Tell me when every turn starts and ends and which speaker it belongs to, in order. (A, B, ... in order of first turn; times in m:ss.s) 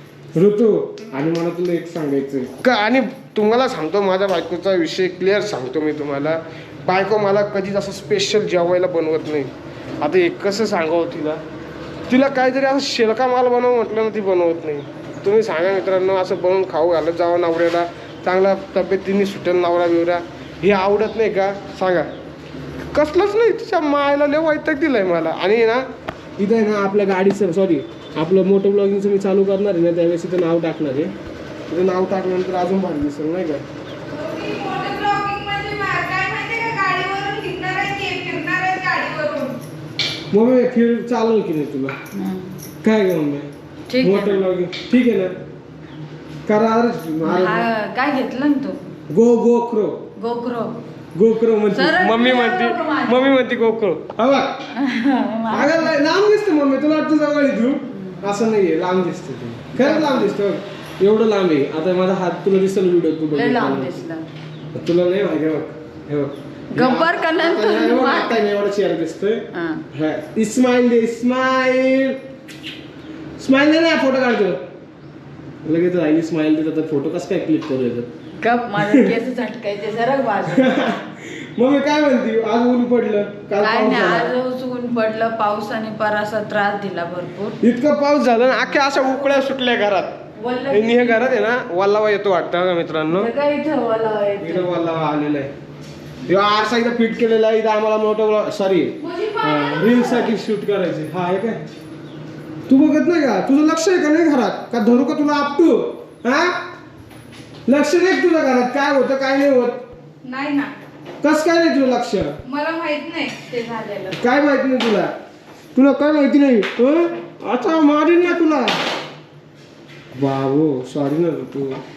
0:00.4-0:11.4 A
0:12.1-0:22.1 A
0:22.9-0:25.8 A
0:26.4-0:31.1 A
0:31.7-0:33.6 A
0:34.1-0:39.6 B
0:40.3-0:41.9 A
0:42.1-0:42.5 C
0:42.8-0:45.3 A
0:43.9-0:44.4 C
0:46.4-0:47.6 A
0:47.2-0:48.8 C
0:49.1-0:50.0 A
0:50.2-0:50.8 C
0:51.1-0:54.6 A
0:51.7-0:53.4 C
0:54.7-0:55.9 C
0:55.5-1:04.0 A
0:57.9-0:58.3 C
0:59.8-1:00.3 C
1:03.3-1:04.3 C
1:04.7-1:12.2 A
1:06.7-1:08.4 C
1:09.5-1:09.8 C
1:13.4-1:14.6 A
1:15.6-1:18.1 A
1:18.4-1:20.9 C
1:18.8-1:19.1 A
1:20.5-1:24.3 A
1:23.6-1:27.6 C
1:27.6-1:30.2 A
1:30.4-1:31.5 C
1:30.7-1:33.3 A
1:33.1-1:34.7 C
1:34.4-1:35.5 A
1:36.3-1:41.6 A
1:39.0-1:40.3 C
1:42.7-1:46.6 A
1:47.7-1:49.8 A
1:50.2-1:50.8 B
1:51.2-1:52.4 A
1:52.4-1:54.2 B
1:54.1-1:55.1 A
1:55.7-1:58.8 A
2:00.1-2:01.8 A